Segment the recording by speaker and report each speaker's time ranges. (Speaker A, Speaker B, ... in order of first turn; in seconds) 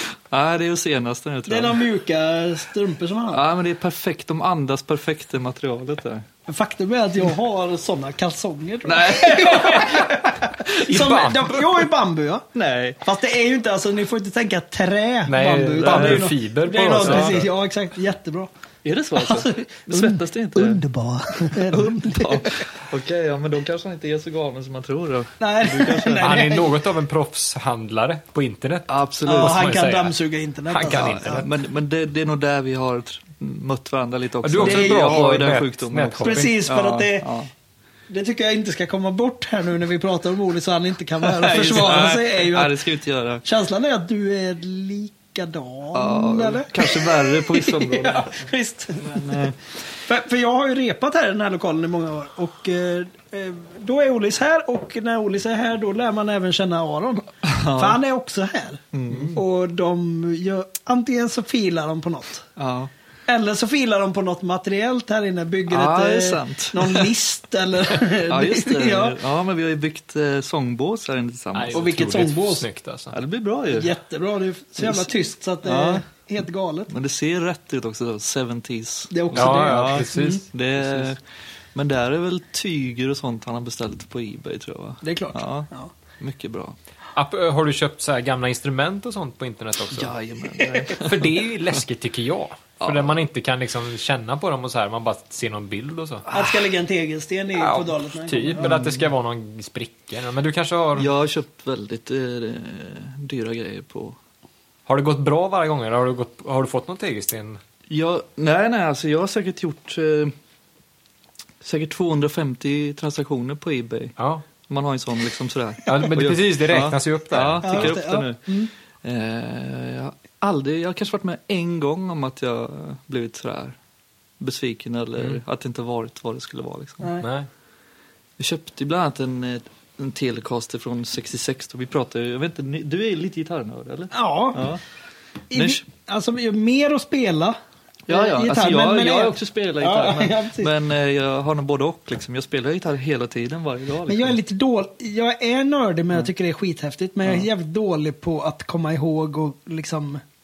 Speaker A: 0.3-1.8, 3.3-6.3, 8.8-10.2, 12.5-13.0, 15.8-16.3, 17.0-17.4, 18.8-20.8, 21.5-26.4, 28.9-29.7, 30.9-37.5, 41.2-43.4, 45.9-48.5, 49.0-49.5, 57.4-58.0, 58.9-59.4, 62.6-62.9, 65.7-67.1, 68.3-71.9, 73.1-73.9, 74.8-75.1, 75.6-76.0, 76.9-81.2, 81.8-85.7, 86.2-86.8, 89.9-91.3, 92.8-93.2, 96.3-96.7, 98.6-99.1, 101.0-104.2, 107.9-110.3, 111.6-114.1, 114.7-118.5, 119.0-123.8, 124.4-127.1, 128.4-134.8, 135.5-135.8, 138.1-144.4
Speaker B: 1.5-3.4, 6.5-12.5, 13.0-18.5, 19.2-22.7, 25.4-26.8, 29.2-31.5, 34.6-35.2, 36.2-37.3, 38.1-42.8, 43.4-49.5, 50.0-62.5, 63.3-69.2, 71.7-72.7, 73.7-76.9, 79.1-80.4, 85.0-85.9, 96.3-98.8, 117.6-118.7, 127.0-127.3, 134.1-134.8, 135.5-137.6, 138.1-140.7, 144.1-150.2
Speaker C: 10.9-11.8, 15.3-17.5, 26.2-30.1, 30.7-31.5, 34.4-36.6, 71.5-73.2, 79.3-80.5, 87.2-90.1, 90.7-96.2, 97.5-101.1, 104.9-107.6, 114.2-114.5, 115.9-118.0, 127.2-127.5